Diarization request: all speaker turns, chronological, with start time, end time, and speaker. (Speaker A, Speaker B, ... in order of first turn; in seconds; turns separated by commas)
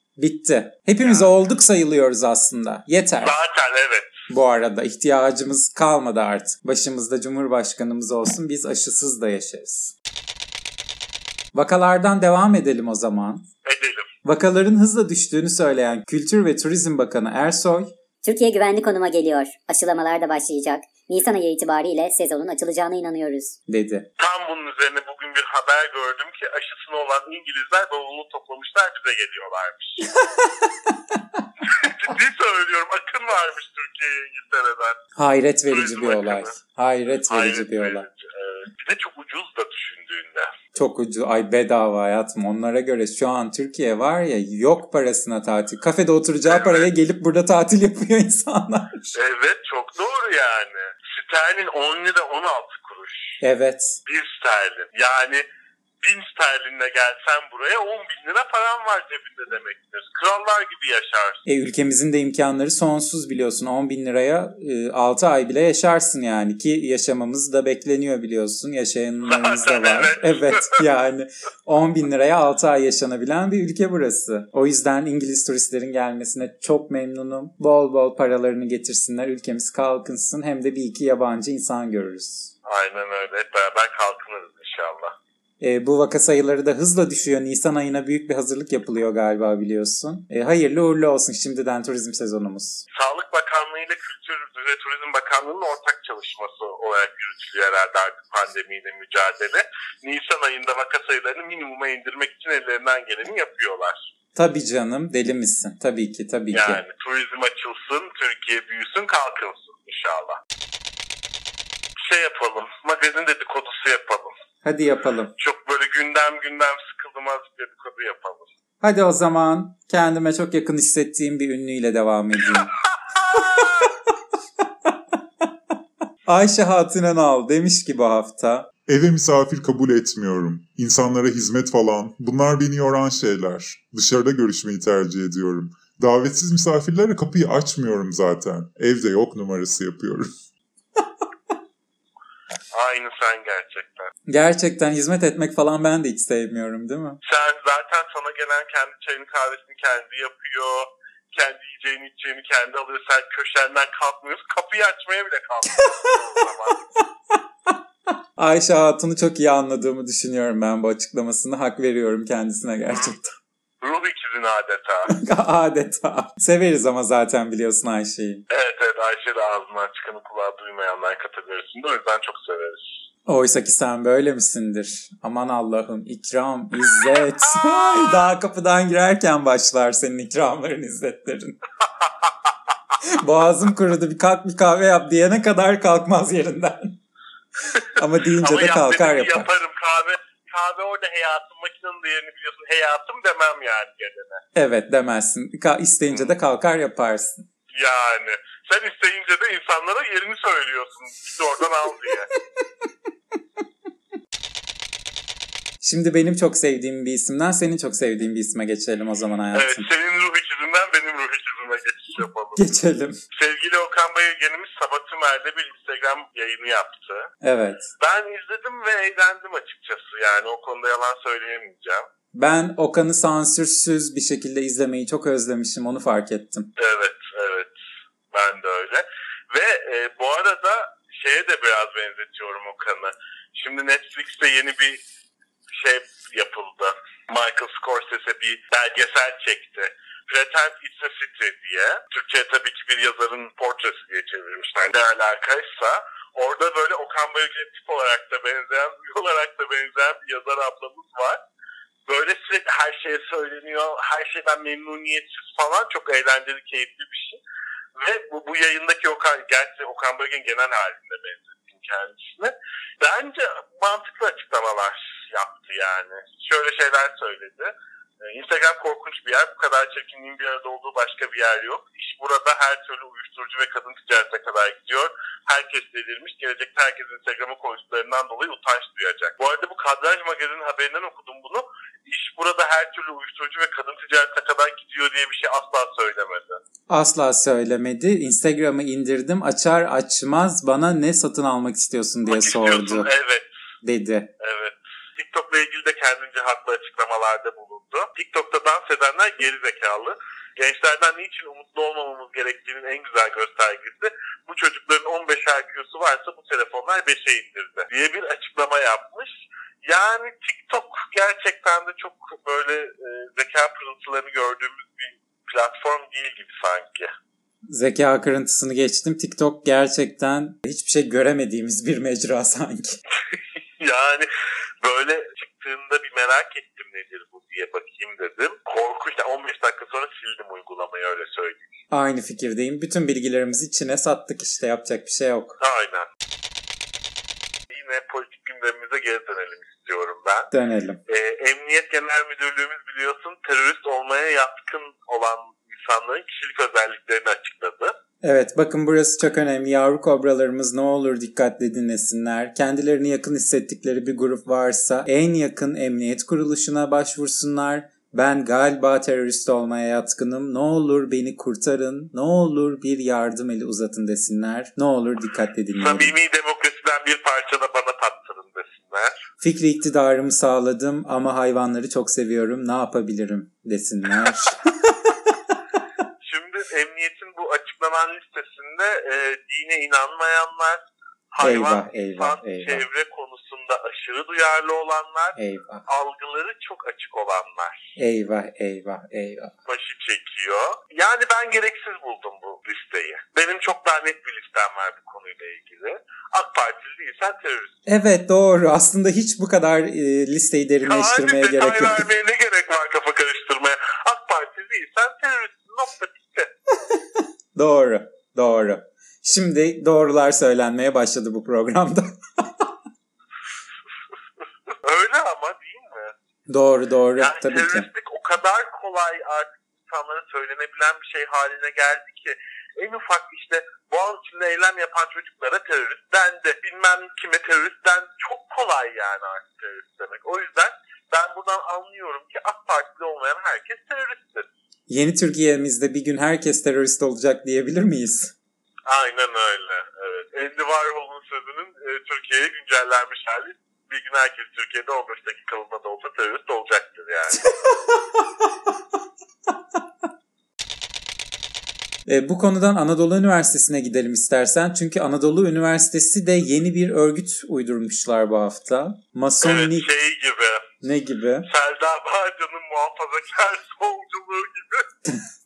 Speaker A: 0.2-3.4, Speaker B: 3.2-4.2, Speaker A: 4.3-9.9, Speaker A: 11.5-13.4, Speaker B: 13.7-14.1, Speaker A: 14.2-17.9, Speaker C: 18.2-23.6, Speaker A: 23.7-24.1, Speaker B: 24.2-30.1, Speaker A: 30.1-31.2, Speaker B: 31.6-35.0, Speaker A: 35.2-38.1, Speaker B: 35.7-36.6, Speaker B: 37.3-40.5, Speaker A: 40.8-49.1, Speaker B: 46.5-46.9, Speaker B: 49.1-53.4, Speaker A: 53.4-54.0, Speaker B: 54.1-55.5, Speaker B: 56.0-61.4, Speaker A: 61.5-82.5, Speaker B: 69.3-70.8, Speaker B: 82.7-85.2, Speaker A: 85.6-92.8, Speaker B: 92.9-104.1, Speaker A: 104.4-106.8, Speaker B: 106.5-110.4, Speaker B: 112.0-114.3, Speaker A: 114.6-115.3, Speaker B: 115.4-118.5, Speaker A: 118.8-122.7, Speaker B: 123.1-123.9, Speaker A: 123.3-123.7, Speaker A: 126.3-128.7, Speaker D: 128.9-140.3, Speaker B: 142.7-144.1, Speaker A: 144.3-147.2, Speaker B: 147.2-156.8, Speaker A: 155.8-156.2, Speaker A: 158.4-163.3, Speaker B: 163.8-165.1, Speaker A: 165.1-168.4, Speaker B: 168.5-172.9, Speaker A: 173.3-181.6, Speaker B: 177.1-178.0, Speaker A: 183.0-186.9, Speaker B: 187.7-194.4, Speaker A: 187.9-189.5, Speaker A: 194.6-197.4, Speaker B: 197.7-202.3, Speaker A: 205.8-209.9, Speaker B: 209.5-212.7, Speaker A: 212.6-213.2, Speaker B: 213.3-217.3, Speaker A: 217.4-217.9, Speaker B: 218.0-222.1, Speaker A: 222.3-226.7, Speaker B: 226.8-227.7, Speaker B: 228.3-235.0, Speaker B: 235.7-251.4, Speaker B: 252.1-257.4, Speaker B: 258.0-286.6, Speaker A: 286.9-293.1, Speaker B: 292.3-293.5, Speaker A: 293.8-294.3, Speaker B: 294.4-317.1, Speaker A: 317.7-323.0, Speaker B: 323.3-324.3, Speaker B: 324.8-331.7, Speaker A: 331.9-335.6, Speaker B: 335.6-336.1, Speaker B: 337.7-340.5, Speaker A: 340.5-341.0, Speaker B: 341.1-347.9, Speaker A: 348.2-366.1, Speaker B: 365.8-369.2, Speaker A: 369.4-374.7, Speaker B: 376.2-387.9, Speaker A: 381.4-382.8, Speaker A: 385.4-385.9, Speaker A: 388.0-389.5, Speaker B: 389.7-397.8, Speaker A: 397.9-402.1, Speaker B: 400.8-406.5, Speaker A: 406.8-412.7, Speaker B: 414.7-416.1, Speaker A: 416.5-417.9, Speaker B: 417.2-434.5, Speaker A: 434.9-438.3, Speaker B: 438.9-447.5, Speaker A: 447.5-448.2, Speaker A: 452.1-459.9, Speaker B: 459.4-460.7, Speaker A: 460.8-461.5, Speaker B: 461.5-464.9